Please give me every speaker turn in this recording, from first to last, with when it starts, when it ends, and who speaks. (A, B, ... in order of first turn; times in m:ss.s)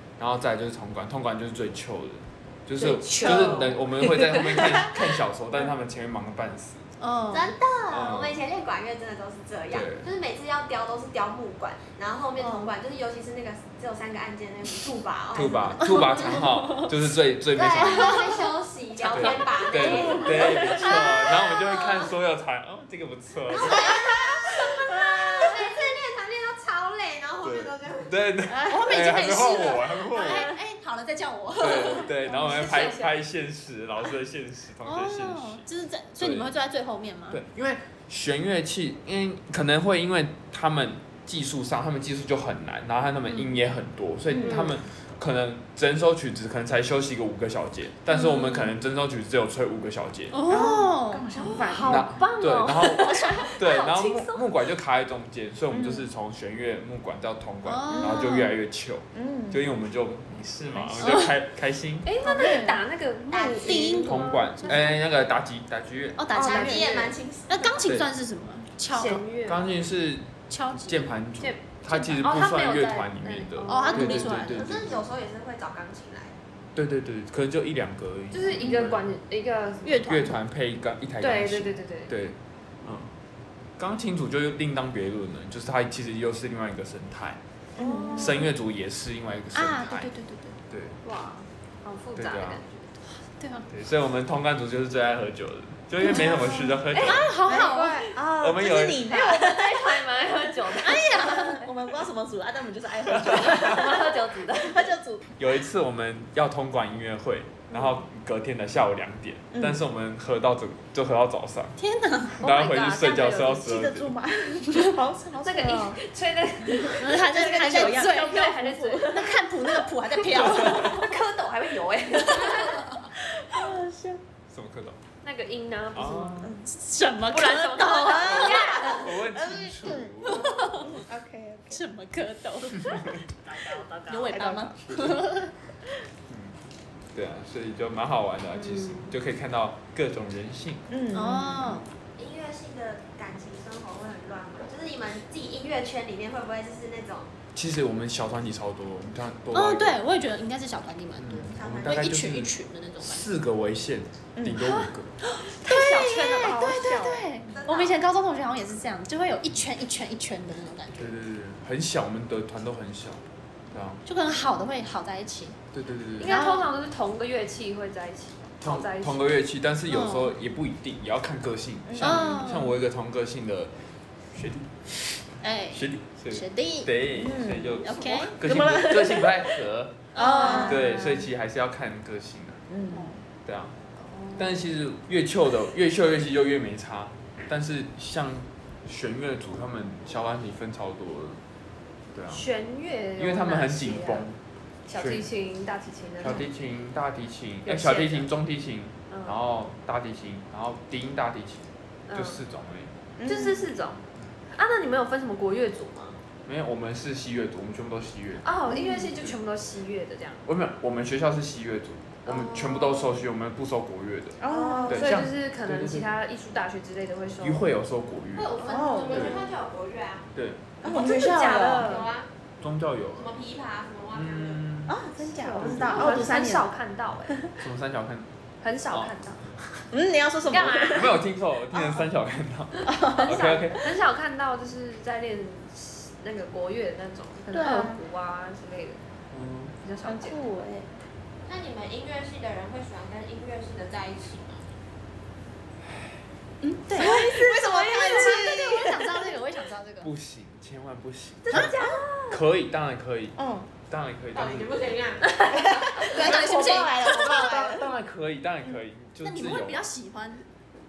0:00.2-0:06.8 A
0:02.8-0:05.0 B
0:07.0-0:07.5 C
0:07.3-0:16.5 D
0:07.9-0:08.4 A
0:09.7-0:10.1 A
0:12.4-0:12.7 C
0:15.3-0:18.2 A
0:15.8-0:16.4 C
0:17.5-0:22.1 D
0:17.9-0:18.2 C
0:19.0-0:24.2 A
0:19.2-0:21.1 C
0:19.9-0:20.8 E
0:23.6-0:28.3 D
0:27.4-0:30.5 A
0:28.5-0:33.1 C
0:31.6-0:35.6 A
0:34.8-0:37.4 C
0:36.2-0:36.5 A
0:37.3-0:50.4 A
0:44.4-0:44.8 B
0:50.3-0:51.8 C
0:50.5-0:52.1 E
0:51.5-0:54.5 B
0:51.8-1:02.1 A
0:55.7-0:56.0 E
0:57.6-0:58.5 C
0:57.9-0:58.4 E
0:59.1-0:59.6 E
1:00.8-1:01.3 B
1:02.0-1:05.0 B
1:02.2-1:02.7 E
1:02.2-1:02.8 C
1:03.3-1:04.2 D
1:03.6-1:04.7 C
1:04.0-1:06.8 A
1:06.2-1:09.2 C
1:06.3-1:07.8 D
1:08.9-1:09.7 B
1:09.3-1:15.0 A
1:10.5-1:11.1 C
1:11.4-1:14.3 B
1:13.6-1:14.8 C
1:14.5-1:16.4 D
1:16.8-1:19.1 A
1:18.3-1:20.3 B
1:19.8-1:20.3 C
1:20.1-1:23.1 A
1:21.2-1:22.1 B
1:23.8-1:27.4 A
1:27.8-1:28.4 E
1:27.8-1:28.5 B
1:28.2-1:30.1 A
1:29.5-1:30.6 C
1:30.7-1:31.0 A
1:31.0-1:33.0 B
1:32.2-1:32.6 A
1:33.2-1:33.7 C
1:33.7-1:37.3 A
1:36.1-1:36.5 E
1:36.1-1:38.2 C
1:36.9-1:37.3 B
1:37.4-1:40.0 E
1:38.4-1:39.1 A
1:39.0-1:41.7 B
1:40.8-1:41.6 C
1:40.9-1:45.3 E
1:43.3-1:43.8 A
1:43.3-1:45.0 B
1:45.4-1:51.8 A
1:51.8-1:52.4 C
1:52.4-1:53.6 B
1:52.4-1:54.1 A
1:53.5-1:56.0 E
1:55.4-1:59.4 B
1:56.6-1:59.4 E
1:57.0-2:01.1 C
2:00.3-2:02.9 B
2:00.4-2:00.9 A
2:02.2-2:03.1 C
2:03.4-2:04.2 E
2:04.5-2:05.0 A
2:05.2-2:06.5 B
2:05.9-2:06.5 A
2:06.6-2:08.7 C
2:07.3-2:09.1 B
2:08.0-2:11.8 E
2:08.2-2:11.0 A
2:10.2-2:10.9 C
2:11.7-2:13.1 C
2:13.5-2:15.0 E
2:14.1-2:15.5 C
2:16.3-2:16.6 A
2:17.1-2:20.8 A
2:18.6-2:19.1 B
2:20.9-2:21.8 E
2:21.1-2:21.9 C
2:22.2-2:27.3 D
2:27.5-2:30.0 A
2:29.5-2:33.3 C
2:31.2-2:35.1 A
2:31.6-2:32.1 D
2:34.4-2:34.7 E
2:34.6-2:41.1 C
2:35.6-2:37.3 E
2:35.8-2:36.2 B
2:37.5-2:38.0 D
2:41.0-2:44.0 A
2:44.0-2:45.6 C
2:45.7-2:46.4 A
2:46.2-2:49.3 B
2:46.2-2:46.7 C
2:48.6-2:53.7 A
2:49.9-2:50.3 C
2:51.9-2:52.4 E
2:52.0-2:52.8 C
2:54.3-3:02.6 A
2:55.4-2:56.9 C
2:57.1-2:59.6 E
2:57.8-2:58.4 C
3:00.1-3:00.8 C
3:00.2-3:01.0 E
3:00.5-3:01.3 B
3:02.7-3:03.2 E
3:02.9-3:03.2 C
3:03.4-3:03.8 A
3:04.0-3:04.7 B
3:04.4-3:11.4 A
3:12.1-3:12.4 A
3:12.3-3:14.3 B
3:13.2-3:14.4 A
3:14.9-3:16.5 B
3:15.0-3:15.3 A
3:16.2-3:22.9 A
3:17.6-3:18.3 B
3:19.1-3:19.4 B
3:22.1-3:22.4 B
3:23.2-3:23.7 E
3:23.3-3:26.2 B
3:26.5-3:28.5 A
3:28.4-3:30.4 B
3:28.7-3:29.0 E
3:30.5-3:36.1 A
3:32.2-3:33.2 B
3:34.4-3:35.2 E
3:34.5-3:37.6 B
3:37.4-3:39.4 A
3:38.4-3:40.3 D
3:38.6-3:39.3 B
3:38.6-3:39.5 E
3:40.4-3:40.7 A
3:40.8-3:42.1 E
3:40.8-3:42.3 D
3:41.2-3:42.1 B
3:42.6-3:43.4 A
3:43.1-3:44.6 D
3:44.1-3:45.0 A
3:44.9-3:46.7 E
3:45.2-3:47.4 B
3:45.6-3:46.4 A
3:47.6-3:48.3 A
3:48.6-3:49.4 B
3:48.9-3:49.8 A
3:49.9-3:51.2 E
3:50.5-3:51.1 B
3:50.5-3:53.9 A
3:52.8-3:53.4 E
3:53.1-3:59.0 B
3:57.5-3:58.0 E
3:59.3-3:59.8 A
3:59.8-4:00.4 B
4:00.0-4:00.9 E
4:01.5-4:04.6 D
4:05.9-4:06.2 A
4:06.6-4:10.1 C
4:06.9-4:09.2 E
4:07.2-4:08.3 D
4:10.0-4:11.7 A
4:11.5-4:12.4 B
4:12.3-4:14.8 A
4:13.4-4:13.7 E
4:14.3-4:17.8 D
4:15.5-4:17.9 E
4:16.1-4:16.9 C
4:17.2-4:19.9 A
4:19.2-4:20.4 C